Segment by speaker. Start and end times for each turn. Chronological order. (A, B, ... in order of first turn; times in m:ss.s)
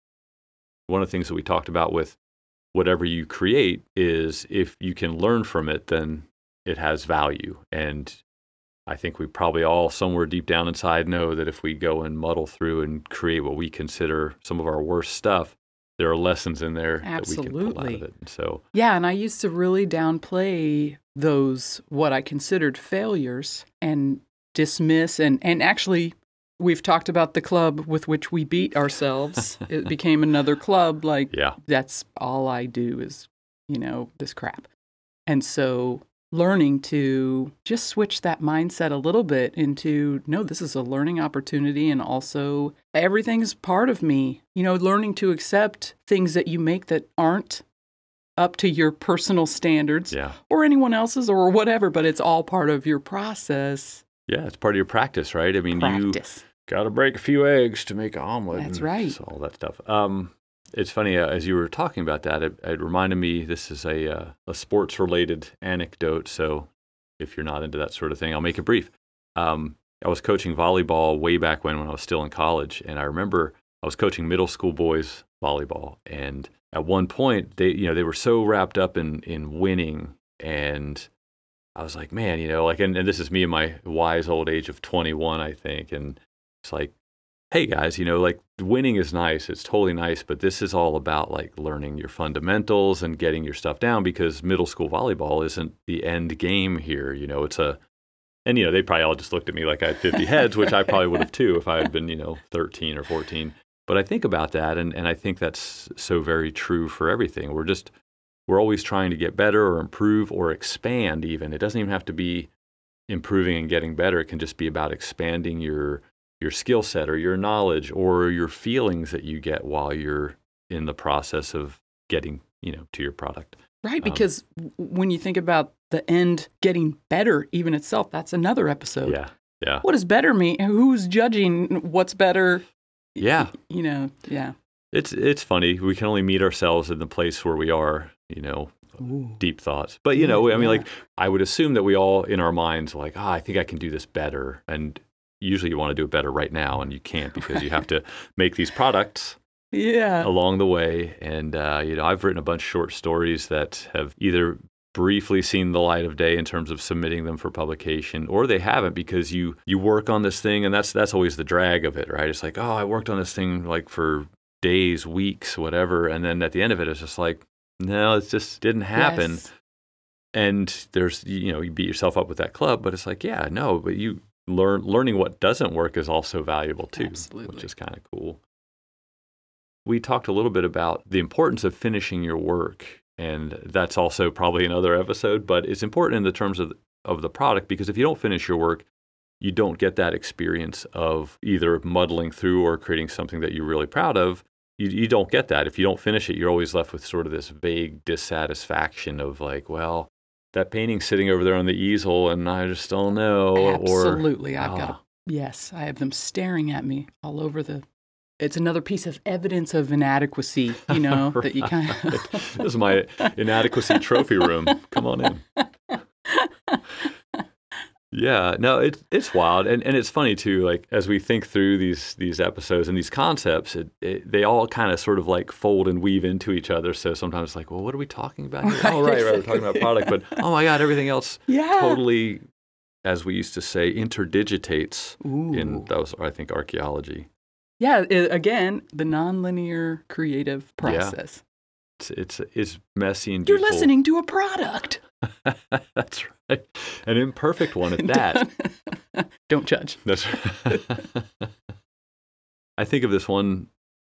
0:00.9-0:02.2 A
0:02.7-0:08.2 A
0:08.9-0:18.6 A
0:17.0-0:18.0 B
0:18.7-0:34.7 B
0:31.3-0:31.6 A
0:35.3-0:47.6 B
0:48.4-0:54.0 B
0:50.1-0:50.4 A
0:54.3-1:21.1 A
0:55.7-0:56.4 B
0:58.5-0:59.2 B
1:21.8-1:26.9 A
1:27.5-1:37.8 A
1:38.4-1:47.9 A
1:48.5-1:52.5 A
1:53.1-2:04.3 A
2:03.8-2:09.2 B
2:09.0-2:09.8 A
2:09.8-2:14.5 B
2:13.2-2:13.5 A
2:14.9-2:29.4 A
2:19.0-2:19.4 B
2:20.1-2:20.9 B
2:29.7-2:30.3 B
2:30.2-2:49.5 A
2:48.9-2:49.5 B
2:50.3-2:58.4 A
2:56.9-2:57.7 B
2:59.8-3:08.9 A
3:09.4-3:25.0 A
3:23.5-3:27.8 B
3:28.4-3:37.4 B
3:30.9-3:35.4 A
3:38.1-3:52.4 A
3:48.6-3:50.4 B
3:51.5-3:52.0 B
3:53.0-3:57.3 A
3:55.2-3:55.9 B
3:57.8-4:01.4 B
4:00.8-4:01.2 A
4:02.0-4:03.9 A
4:03.4-4:05.0 B
4:05.4-4:08.4 A
4:07.9-4:10.0 B
4:10.0-4:11.5 A
4:12.8-4:13.7 A